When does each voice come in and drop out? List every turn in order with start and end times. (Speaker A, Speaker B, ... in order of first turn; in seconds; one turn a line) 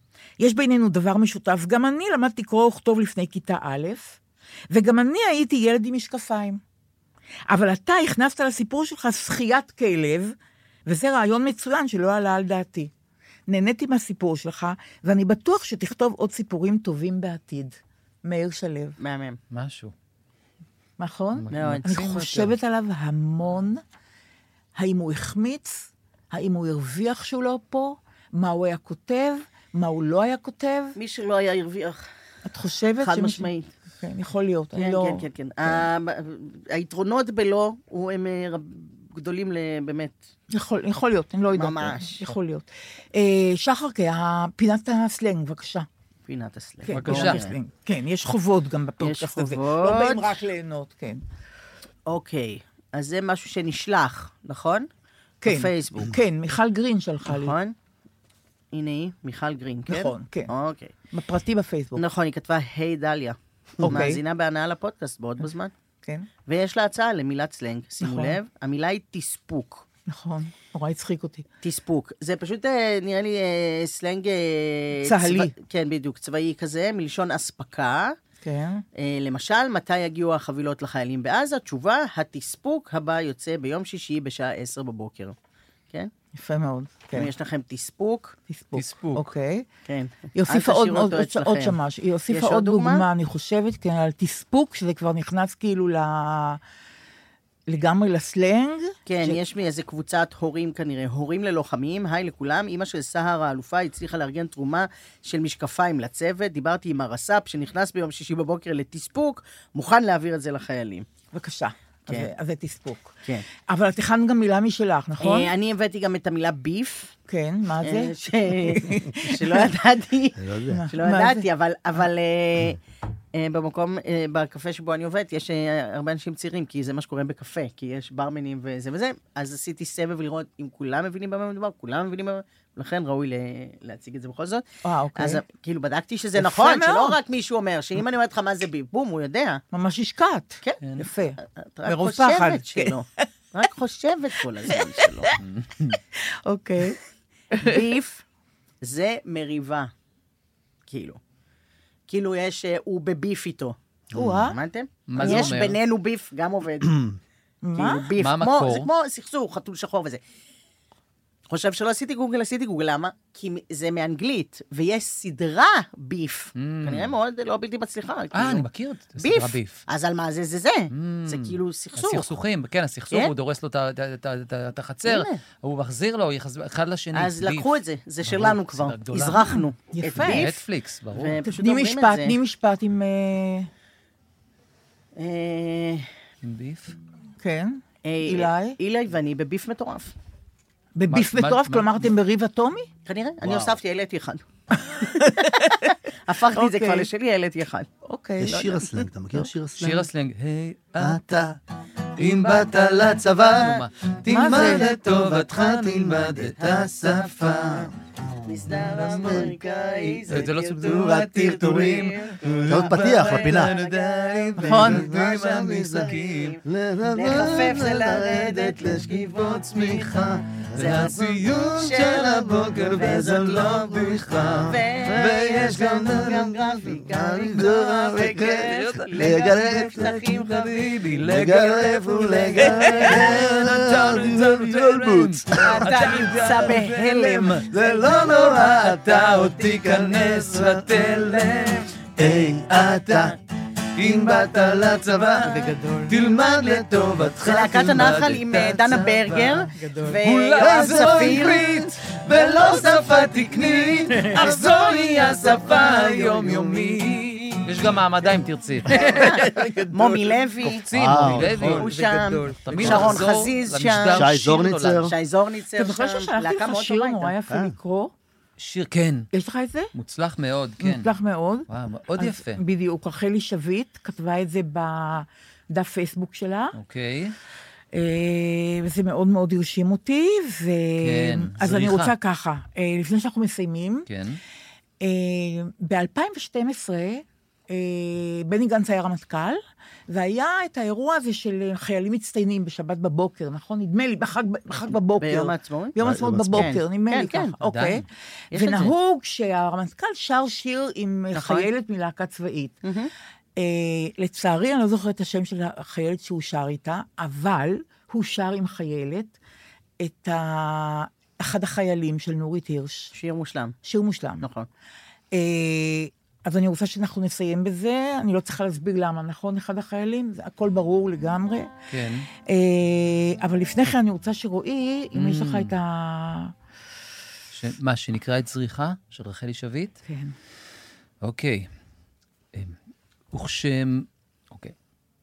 Speaker A: 0.4-4.2
Speaker A: 4.7-6.6
Speaker A: 7.5-12.9
Speaker A: 13.5-19.0
Speaker B: 19.0-19.4
Speaker C: 19.5-19.9
Speaker A: 21.0-23.8
Speaker C: 21.4-22.6
Speaker B: 21.5-21.9
Speaker A: 24.8-31.0
Speaker B: 31.0-32.1
Speaker A: 32.5-33.5
Speaker B: 33.0-33.7
Speaker A: 34.0-35.3
Speaker B: 34.8-40.2
Speaker A: 40.5-45.9
Speaker B: 41.5-42.3
Speaker B: 46.3-47.5
Speaker A: 46.8-51.2
Speaker C: 46.9-47.4
Speaker B: 49.0-50.4
Speaker B: 52.1-54.9
Speaker A: 55.4-57.5
Speaker B: 55.5-56.2
Speaker B: 57.3-57.8
Speaker B: 58.7-60.9
Speaker A: 59.9-60.5
Speaker A: 61.1-62.0
Speaker B: 62.0-65.7
Speaker A: 63.8-64.2
Speaker B: 66.5-69.8
Speaker A: 68.0-68.4
Speaker A: 70.1-71.5
Speaker B: 71.6-78.2
Speaker A: 75.0-75.5
Speaker A: 78.4-78.8
Speaker B: 79.0-85.4
Speaker A: 86.3-87.3
Speaker B: 87.1-88.4
Speaker A: 88.5-89.7
Speaker C: 88.7-89.3
Speaker B: 89.9-93.1
Speaker A: 90.3-96.6
Speaker A: 97.7-99.4
Speaker B: 99.1-111.1
Speaker A: 111.3-113.2
Speaker A: 113.7-115.5
Speaker B: 115.2-117.1
Speaker A: 117.3-119.7
Speaker B: 117.8-122.8
Speaker D: 120.4-120.8
Speaker A: 120.7-121.5
Speaker B: 123.3-134.6
Speaker A: 134.8-135.4
Speaker B: 135.2-139.6
Speaker A: 136.4-137.2
Speaker A: 139.7-142.9
Speaker B: 140.6-145.3
Speaker A: 144.6-145.4
Speaker C: 145.4-146.0
Speaker A: 146.2-147.0
Speaker A: 147.6-147.8
Speaker B: 147.6-148.2
Speaker B: 148.8-149.9
Speaker B: 150.9-151.2
Speaker B: 152.1-153.8
Speaker D: 154.1-154.4
Speaker A: 154.1-154.6
Speaker B: 154.4-157.0
Speaker C: 155.1-155.8
Speaker A: 155.2-155.6
Speaker D: 156.8-157.2
Speaker A: 157.6-158.1
Speaker B: 157.8-160.2
Speaker C: 158.2-158.9
Speaker B: 161.5-168.7
Speaker C: 166.6-167.2
Speaker C: 168.3-169.9
Speaker B: 169.2-172.3
Speaker C: 170.9-177.7
Speaker B: 175.1-175.4
Speaker B: 177.1-180.5
Speaker C: 178.2-179.6
Speaker A: 179.9-180.6
Speaker C: 180.2-181.4
Speaker B: 181.1-182.4
Speaker A: 181.4-183.7
Speaker B: 185.2-186.1
Speaker C: 186.4-187.0
Speaker A: 187.4-188.8
Speaker B: 188.0-190.1
Speaker A: 191.0-192.9
Speaker C: 191.1-192.1
Speaker B: 193.1-194.4
Speaker D: 193.4-193.8
Speaker A: 194.7-195.9
Speaker B: 196.3-197.9
Speaker A: 196.5-197.1
Speaker A: 198.1-198.8
Speaker D: 198.4-200.1
Speaker B: 198.5-198.9
Speaker C: 199.8-201.4
Speaker D: 201.0-201.6
Speaker C: 202.2-207.9
Speaker B: 202.2-203.9
Speaker A: 204.3-204.9
Speaker D: 204.4-206.8
Speaker B: 206.6-233.5
Speaker C: 208.7-209.6
Speaker D: 208.7-212.0
Speaker C: 210.3-216.6
Speaker D: 212.7-213.8
Speaker A: 214.6-215.1
Speaker D: 215.4-216.1
Speaker D: 216.7-219.2
Speaker C: 217.2-226.6
Speaker D: 220.6-221.2
Speaker D: 222.3-230.3
Speaker C: 228.1-243.4
Speaker D: 231.2-236.0
Speaker B: 235.6-240.0
Speaker D: 237.7-240.9
Speaker B: 241.1-241.8
Speaker D: 242.2-243.4
Speaker C: 244.0-249.7
Speaker A: 245.4-246.2
Speaker B: 247.4-257.6
Speaker A: 249.7-250.2
Speaker C: 250.2-259.4
Speaker D: 250.6-251.7
Speaker A: 258.9-260.4
Speaker B: 259.0-267.3
Speaker C: 260.6-261.9
Speaker D: 260.9-261.9
Speaker A: 261.3-263.2
Speaker C: 262.6-265.1
Speaker D: 262.8-263.2
Speaker D: 264.1-265.1
Speaker A: 265.8-268.1
Speaker D: 267.5-267.8
Speaker C: 268.6-269.3
Speaker A: 269.3-269.9
Speaker C: 269.9-271.2
Speaker A: 270.8-271.7
Speaker C: 271.7-272.6
Speaker A: 272.2-276.8
Speaker C: 276.7-277.4
Speaker A: 277.9-284.1
Speaker C: 281.0-282.1
Speaker C: 284.1-284.4
Speaker A: 285.0-302.8
Speaker B: 295.2-297.6
Speaker D: 296.0-296.8
Speaker C: 297.7-298.1
Speaker B: 298.5-298.9
Speaker B: 301.3-301.7
Speaker B: 302.8-303.1
Speaker A: 303.6-309.4
Speaker A: 310.0-313.1
Speaker B: 313.1-313.8
Speaker A: 313.9-314.5
Speaker B: 314.4-314.7
Speaker A: 315.3-321.7
Speaker C: 321.9-322.3
Speaker A: 322.4-326.5
Speaker C: 325.1-325.8
Speaker C: 327.5-330.0
Speaker A: 330.1-330.3
Speaker C: 331.2-331.7
Speaker C: 333.3-334.7